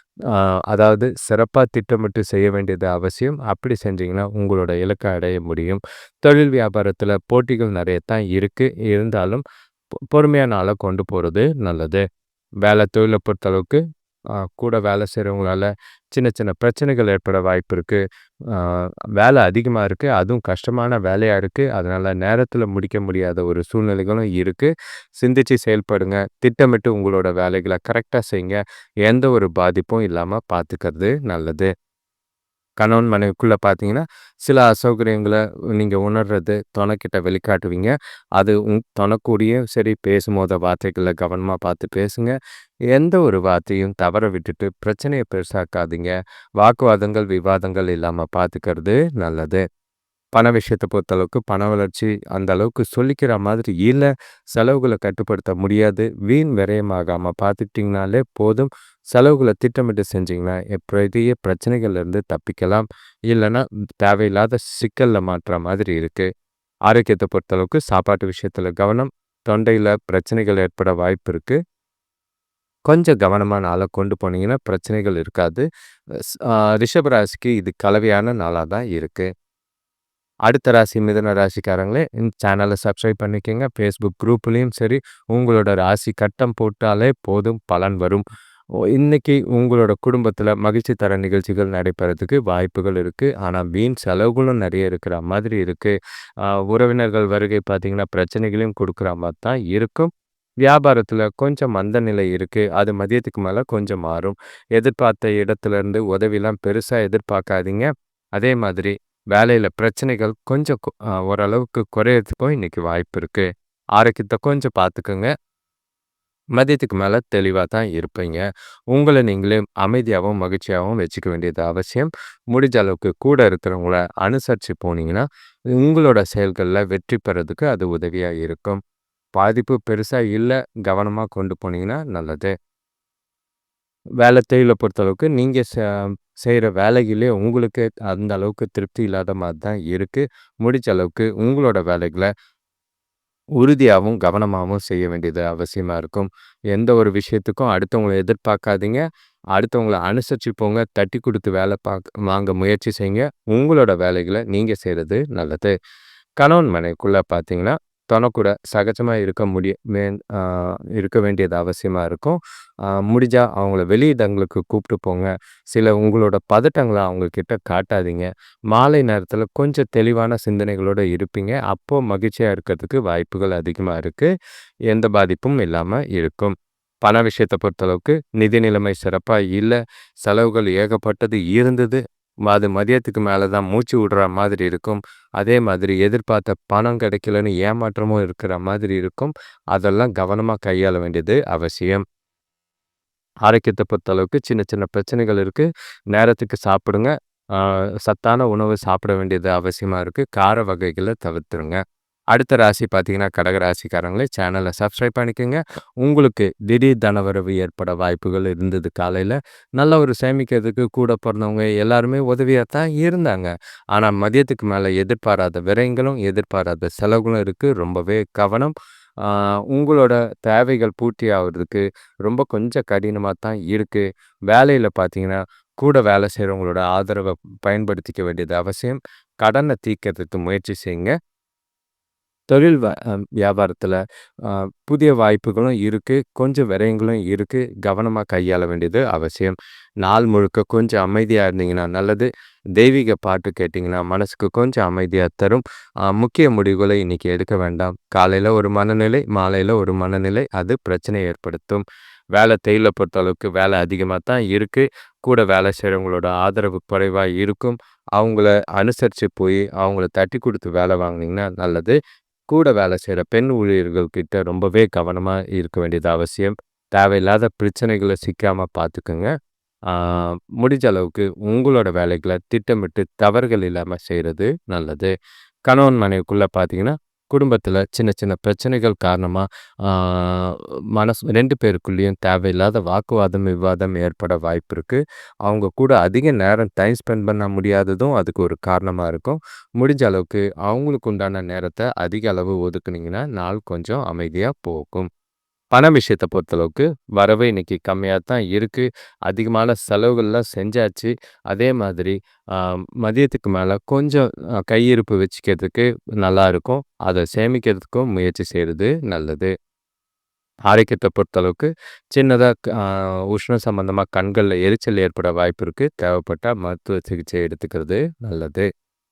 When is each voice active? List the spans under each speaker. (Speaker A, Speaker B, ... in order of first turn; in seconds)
Speaker A: 0.3-9.4, 10.1-12.0, 12.6-13.8, 14.6-18.0, 18.5-31.7, 32.8-42.3, 42.9-49.6, 50.3-66.3, 66.9-71.6, 72.9-75.6, 76.4-79.3, 80.5-88.2, 88.9-95.9, 96.5-100.1, 100.6-115.3, 116.5-125.2, 125.8-128.8, 129.3-132.5, 134.2-142.3, 143.6-149.0, 149.5-155.7, 156.4-174.3, 174.9-192.0, 193.4-201.8, 202.3-231.1, 232.5-251.8, 252.3-261.9, 262.5-269.3, 269.9-275.1, 275.7-295.1, 295.7-309.5, 310.7-318.7